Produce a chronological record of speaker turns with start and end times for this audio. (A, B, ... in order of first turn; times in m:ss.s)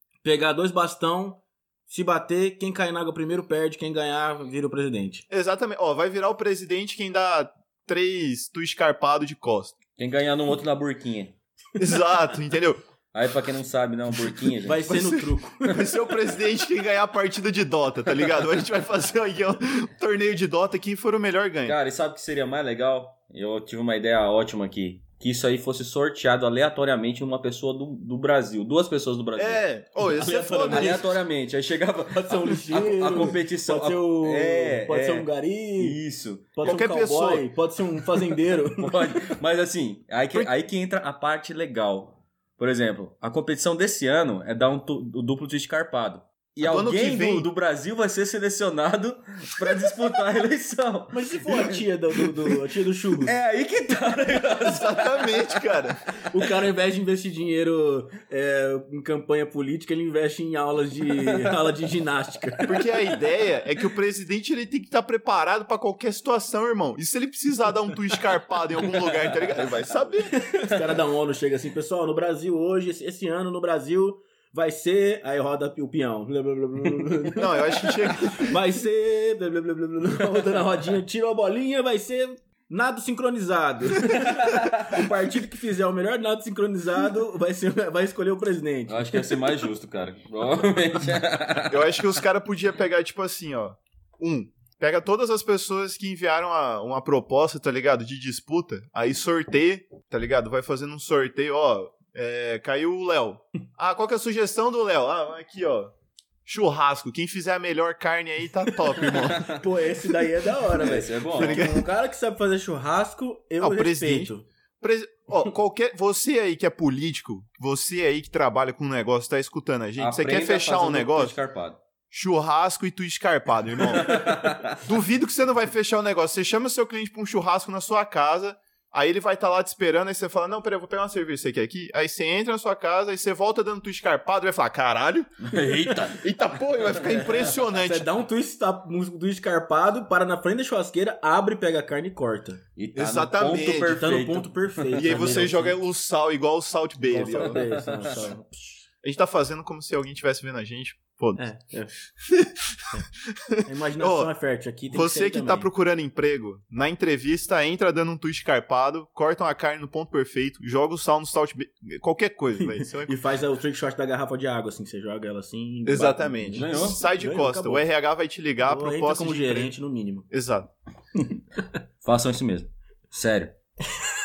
0:00.2-0:05.2 A
0:05.3-0:09.7 B
0:10.0-0:11.4 C
0:11.8-0:12.8 B
0:13.1-0:15.0 C
0:14.6-0:15.8 A
0:14.8-0:21.8 B
0:21.6-0:29.6 C
0:29.4-0:31.1 B
0:30.2-0:31.2 A
0:30.2-0:36.7 C
0:32.1-0:36.0 A
0:36.5-0:39.2 A
0:36.6-0:37.5 B
0:38.6-0:52.2 C
0:46.6-0:47.5 B
0:51.1-0:53.3 A
0:53.2-0:55.8 C
0:54.6-0:56.0 B
0:56.3-1:02.9 A
1:02.6-1:10.4 B
1:10.3-1:29.4 A
1:17.4-1:18.5 B
1:24.4-1:24.8 C
1:28.9-1:32.0 C
1:31.7-1:45.9 B
1:46.4-1:49.4 B
1:49.1-1:49.6 C
1:49.4-1:54.4 A
1:50.8-1:51.8 C
1:50.8-1:51.8 B
1:53.6-2:01.4 B
2:00.0-2:01.8 C
2:02.1-2:15.5 B
2:03.8-2:04.8 C
2:15.4-2:16.3 C
2:16.0-2:18.1 B
2:16.8-2:17.5 C
2:17.8-2:22.6 A
2:22.8-2:25.4 C
2:22.9-2:24.0 B
2:23.9-2:25.8 A
2:24.9-2:27.6 B
2:27.0-2:28.8 A
2:27.4-2:28.3 C
2:29.0-2:31.4 B
2:31.4-2:31.9 A
2:32.2-2:34.3 B
2:33.6-2:35.7 A
2:34.9-2:43.2 B
2:43.0-2:47.8 A
2:45.8-2:49.7 B
2:46.5-2:47.0 C
2:48.6-2:50.3 A
2:50.3-2:50.7 B
2:52.0-2:53.5 C